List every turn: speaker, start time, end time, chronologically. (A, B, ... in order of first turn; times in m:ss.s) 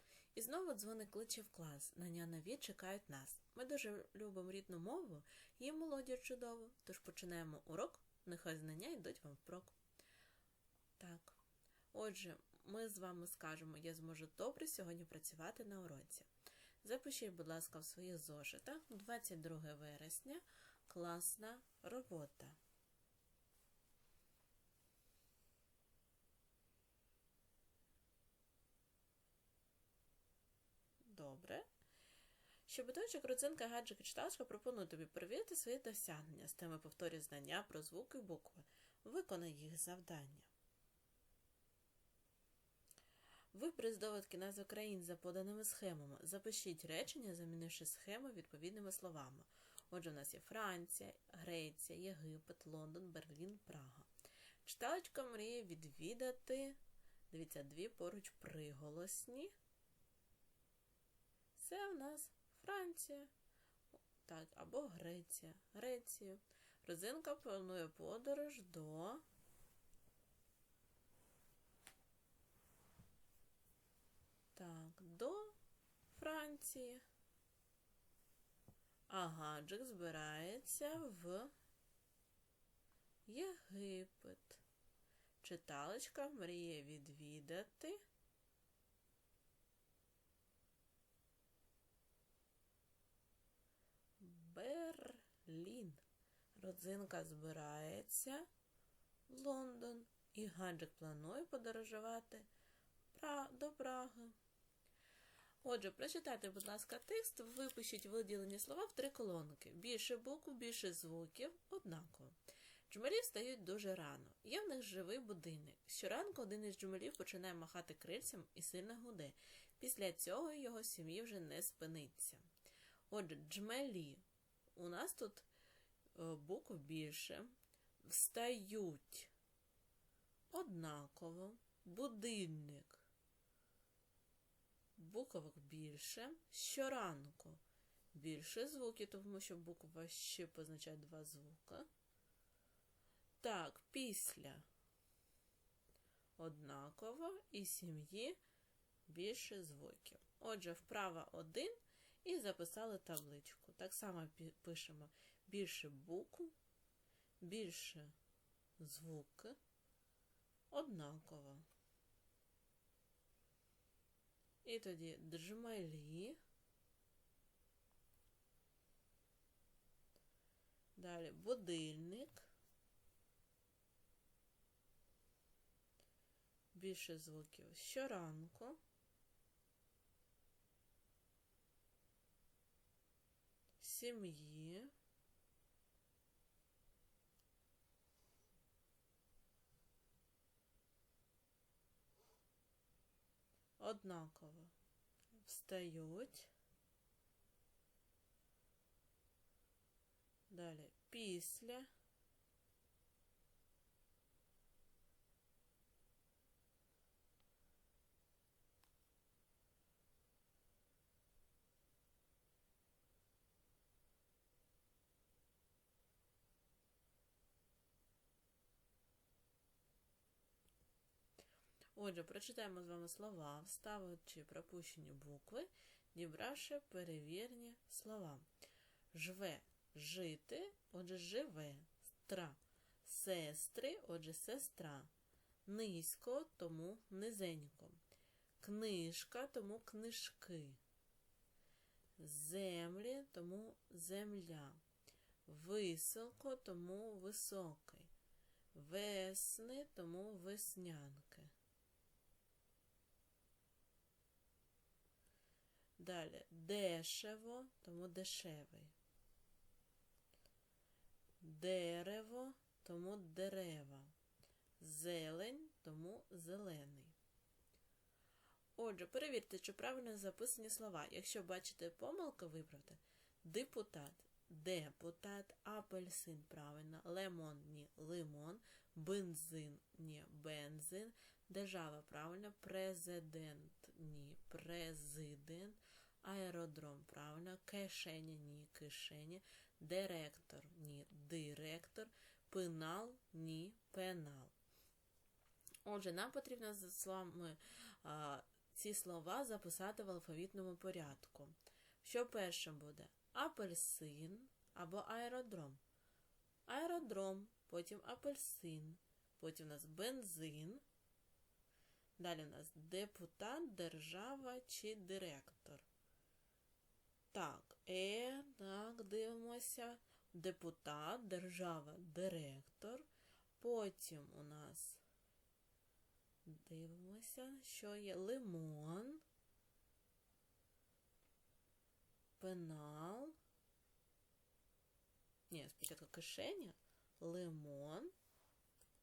0:00.3-0:09.8 A
0:11.0-0:11.4 A
0:11.9-0:16.3 A
0:16.8-0:22.6 A
0:31.0-0:31.7 A
0:32.7-0:40.5 A
0:43.5-0:54.1 A
0:54.6-0:56.8 A
0:57.3-0:59.5 A
1:01.6-1:03.3 A
1:04.2-1:09.2 A
1:14.6-1:15.6 A
1:16.1-1:17.0 A
1:19.1-1:21.5 A
1:23.3-1:24.6 A
1:25.4-1:28.0 A
1:34.2-1:36.0 A
1:36.6-1:38.5 A
1:39.3-1:42.5 A
1:43.1-1:44.4 A
1:45.6-1:52.4 A
1:52.9-2:02.5 A
2:03.1-2:04.2 A
2:04.8-2:05.5 A
2:06.2-2:09.3 A
2:10.5-2:13.0 A
2:15.0-2:17.6 A
2:18.1-2:21.9 A
2:23.4-2:24.7 A
2:26.4-2:28.4 A
2:29.1-2:36.5 A
2:37.4-2:38.1 A
2:38.8-2:39.6 A
2:40.7-2:41.6 A
2:44.6-2:46.4 A
2:51.0-2:52.5 A
2:56.7-2:58.8 A
3:03.8-3:04.9 A
3:13.8-3:14.7 A
3:15.4-3:16.5 A
3:20.5-3:21.9 A
3:42.0-3:48.4 A
3:49.1-3:55.1 A
3:55.7-3:58.0 A
3:58.6-4:00.8 A
4:02.2-4:04.8 A
4:05.5-4:08.1 A
4:08.7-4:11.5 A
4:16.0-4:18.9 A
4:21.4-4:24.1 A
4:24.8-4:27.2 A
4:28.8-4:54.5 A
4:55.8-5:05.8 A
5:06.7-5:10.8 A
5:12.2-5:15.9 A
5:17.3-5:23.1 A
5:23.6-5:25.0 A
5:26.4-5:29.2 A
5:32.4-5:33.4 A
5:35.5-5:38.1 A